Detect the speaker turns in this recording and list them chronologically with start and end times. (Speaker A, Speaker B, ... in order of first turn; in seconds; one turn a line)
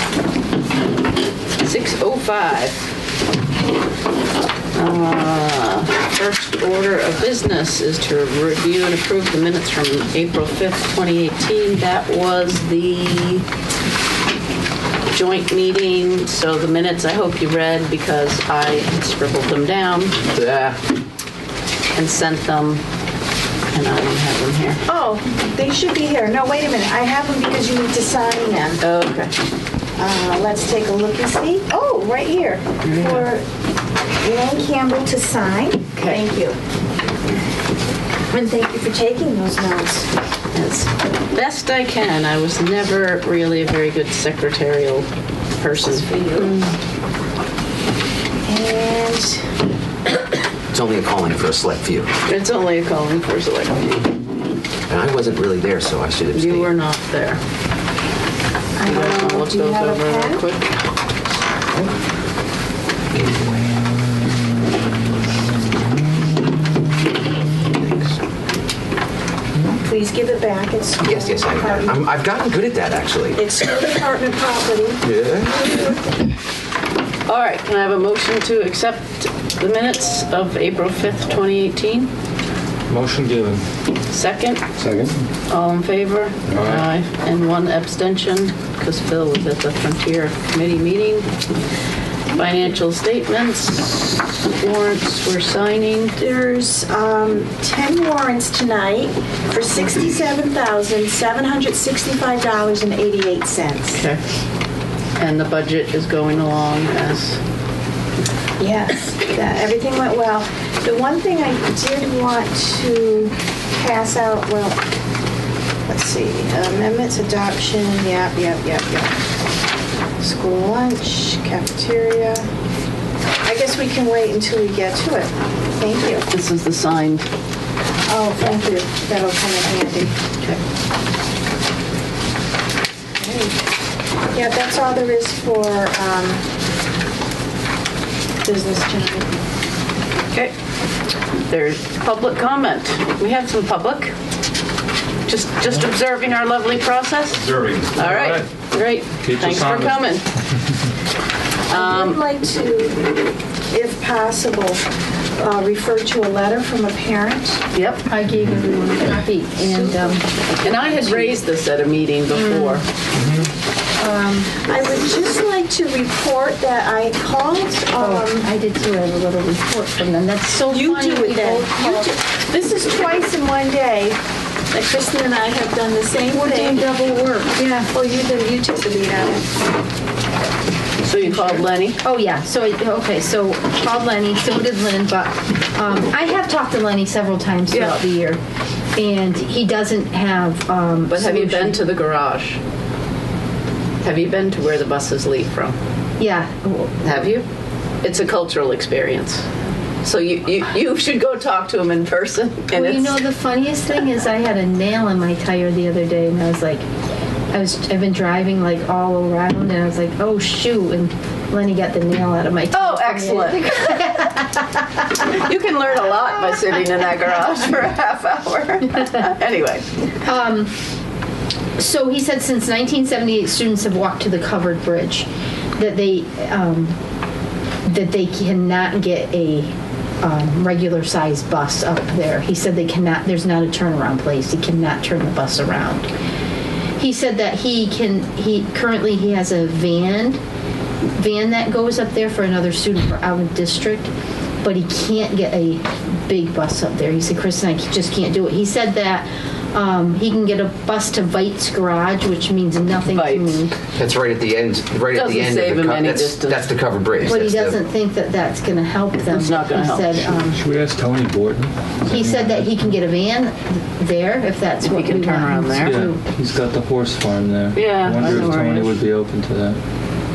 Speaker A: 1.6-2.9
Speaker A: 4.7-13.4
Speaker A: 15.1-20.2
Speaker B: 20.3-20.8
Speaker A: 21.9-22.8
Speaker A: 23.7-24.8
Speaker C: 24.9-28.8
Speaker A: 28.8-29.4
Speaker C: 29.9-33.4
Speaker A: 32.8-33.3
Speaker C: 34.2-36.6
Speaker A: 35.9-36.2
Speaker C: 38.3-40.1
Speaker A: 40.5-45.1
Speaker A: 45.6-46.7
Speaker C: 46.0-46.5
Speaker C: 48.4-49.5
Speaker B: 50.7-52.1
Speaker A: 52.2-54.2
Speaker B: 54.9-56.7
Speaker A: 56.3-57.4
Speaker C: 58.8-60.4
Speaker A: 58.8-60.7
Speaker D: 63.1-66.8
Speaker D: 67.7-67.9
Speaker C: 69.8-71.9
Speaker B: 71.0-73.4
Speaker C: 73.3-76.0
Speaker B: 75.0-75.6
Speaker A: 77.2-82.1
Speaker D: 82.9-83.6
Speaker A: 84.1-84.6
Speaker D: 84.8-85.2
Speaker A: 85.5-91.3
Speaker D: 86.5-86.8
Speaker A: 92.3-96.2
Speaker C: 96.2-104.0
Speaker A: 103.9-104.2
Speaker A: 105.2-107.4
Speaker C: 108.6-114.8
Speaker C: 115.8-119.2
Speaker C: 120.2-122.5
Speaker C: 123.4-126.3
Speaker A: 126.3-127.3
Speaker C: 128.1-130.2
Speaker C: 133.2-133.6
Speaker C: 134.3-136.4
Speaker C: 138.4-139.3
Speaker A: 141.5-144.1
Speaker A: 145.3-150.3
Speaker B: 147.4-147.9
Speaker D: 147.9-148.5
Speaker D: 149.2-150.2
Speaker A: 151.7-152.2
Speaker C: 151.7-154.8
Speaker C: 155.4-157.6
Speaker A: 157.7-158.0
Speaker E: 158.0-160.2
Speaker D: 158.3-158.6
Speaker C: 159.6-161.4
Speaker A: 160.6-162.8
Speaker E: 162.3-162.8
Speaker D: 163.1-163.5
Speaker E: 164.0-164.5
Speaker C: 164.3-168.5
Speaker E: 168.0-172.1
Speaker C: 170.6-174.2
Speaker C: 174.7-179.5
Speaker A: 181.0-182.0
Speaker E: 182.0-188.4
Speaker A: 187.7-188.0
Speaker E: 188.9-191.8
Speaker A: 191.1-192.6
Speaker A: 194.0-195.8
Speaker E: 196.2-197.0
Speaker A: 197.0-197.4
Speaker A: 198.0-199.4
Speaker A: 200.0-203.3
Speaker E: 202.7-206.9
Speaker E: 207.5-214.9
Speaker A: 212.7-214.3
Speaker A: 215.2-220.1
Speaker E: 220.2-220.7
Speaker E: 221.8-226.9
Speaker E: 227.8-236.1
Speaker E: 237.0-240.4
Speaker E: 241.1-244.1
Speaker E: 244.6-253.7
Speaker A: 253.1-253.7
Speaker B: 253.9-257.8
Speaker A: 255.1-256.7
Speaker E: 257.2-260.6
Speaker A: 259.2-260.2
Speaker D: 260.2-262.9
Speaker E: 262.1-266.2
Speaker A: 264.8-266.0
Speaker D: 265.8-269.8
Speaker A: 267.7-269.0